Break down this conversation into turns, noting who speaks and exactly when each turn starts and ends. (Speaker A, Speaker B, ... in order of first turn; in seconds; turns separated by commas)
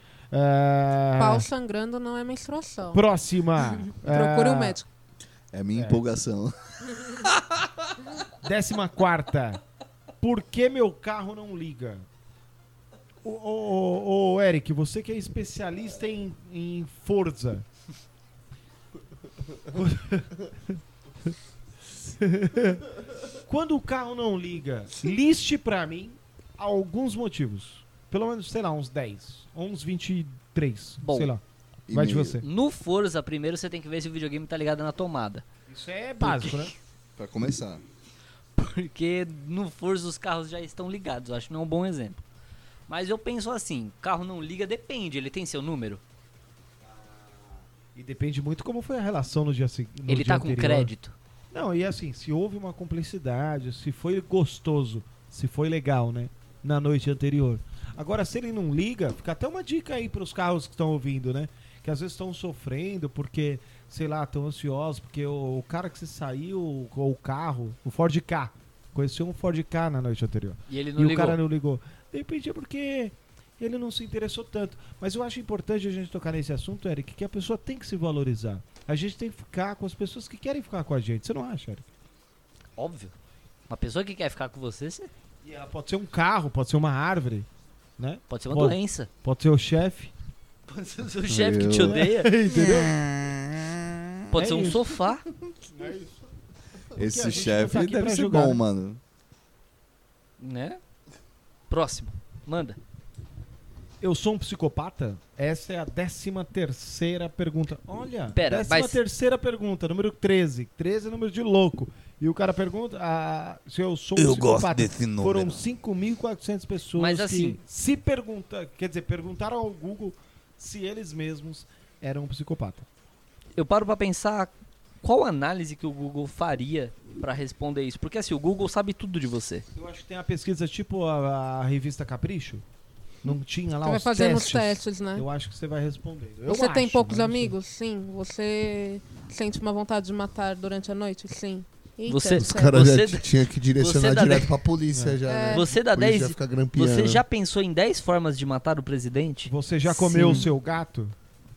Speaker A: 0.3-1.5, Speaker B: 1.2-3.0, Speaker A: 2.9-4.8, Speaker B: 3.8-4.9, Speaker C: 5.5-7.4, Speaker A: 5.7-6.0, Speaker A: 8.4-9.6, Speaker A: 10.2-12.1, Speaker A: 13.2-17.6, Speaker A: 19.7-20.8, Speaker A: 21.9-22.8, Speaker A: 23.4-32.4, Speaker D: 31.0-31.3, Speaker C: 31.9-32.4, Speaker D: 32.4-35.5, Speaker A: 35.7-36.7, Speaker D: 36.2-36.7, Speaker C: 37.2-37.8, Speaker D: 38.5-42.2, Speaker D: 42.9-46.0, Speaker A: 47.9-50.9, Speaker D: 50.1-51.1, Speaker A: 51.5-81.8, Speaker D: 70.7-71.4, Speaker D: 82.8-83.1, Speaker D: 83.7-85.1, Speaker A: 85.4-90.1, Speaker D: 88.3-89.1, Speaker D: 90.7-92.3, Speaker C: 91.3-93.8, Speaker A: 91.7-93.0, Speaker D: 94.3-95.2, Speaker A: 94.3-94.8, Speaker A: 95.7-96.2, Speaker A: 96.9-98.6, Speaker C: 96.9-99.0, Speaker D: 100.4-100.8, Speaker D: 101.7-102.8, Speaker A: 104.0-122.9, Speaker D: 108.3-109.0, Speaker C: 114.2-115.6, Speaker D: 117.0-117.6, Speaker D: 123.5-129.6, Speaker A: 129.7-132.6, Speaker A: 133.2-137.6, Speaker B: 133.8-135.2, Speaker B: 136.5-142.8, Speaker D: 142.1-144.6, Speaker E: 142.3-147.2, Speaker A: 144.9-145.2, Speaker B: 145.2-145.7, Speaker D: 145.5-150.5, Speaker A: 149.4-151.1